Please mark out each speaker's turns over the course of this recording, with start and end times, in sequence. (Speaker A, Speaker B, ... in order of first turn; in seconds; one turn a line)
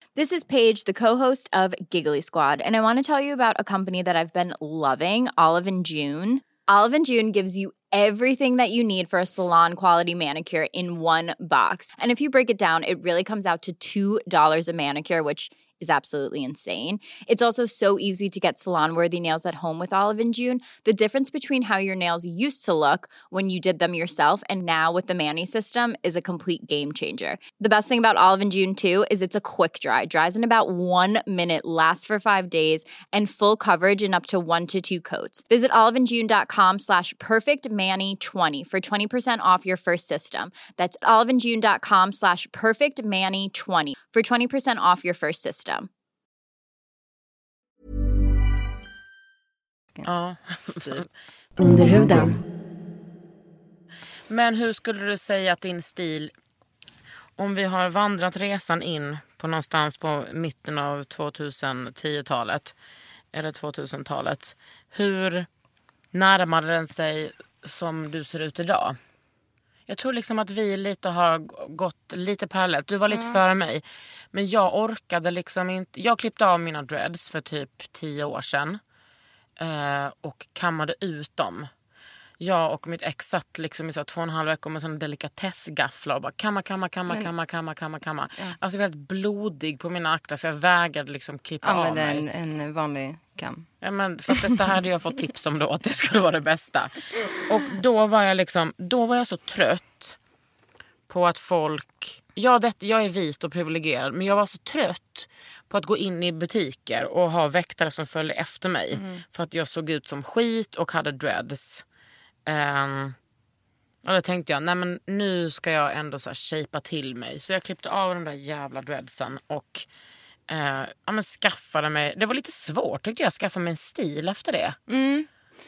Speaker A: 0.2-45.9
Speaker B: 50.0-51.1
Speaker C: 50.7-51.0
Speaker C: 51.6-52.4
Speaker B: 51.6-52.3
Speaker B: 54.3-56.3
Speaker B: 57.4-62.8
Speaker B: 63.3-65.5
Speaker B: 66.1-69.0
Speaker B: 69.9-78.8
Speaker C: 73.1-73.4
Speaker B: 79.6-81.7
Speaker B: 82.4-92.2
Speaker C: 91.6-93.7
Speaker B: 93.8-100.2
Speaker B: 101.1-111.8
Speaker C: 108.9-109.2
Speaker B: 112.5-113.2
Speaker B: 114.0-119.9
Speaker B: 120.5-124.8
Speaker C: 124.9-125.3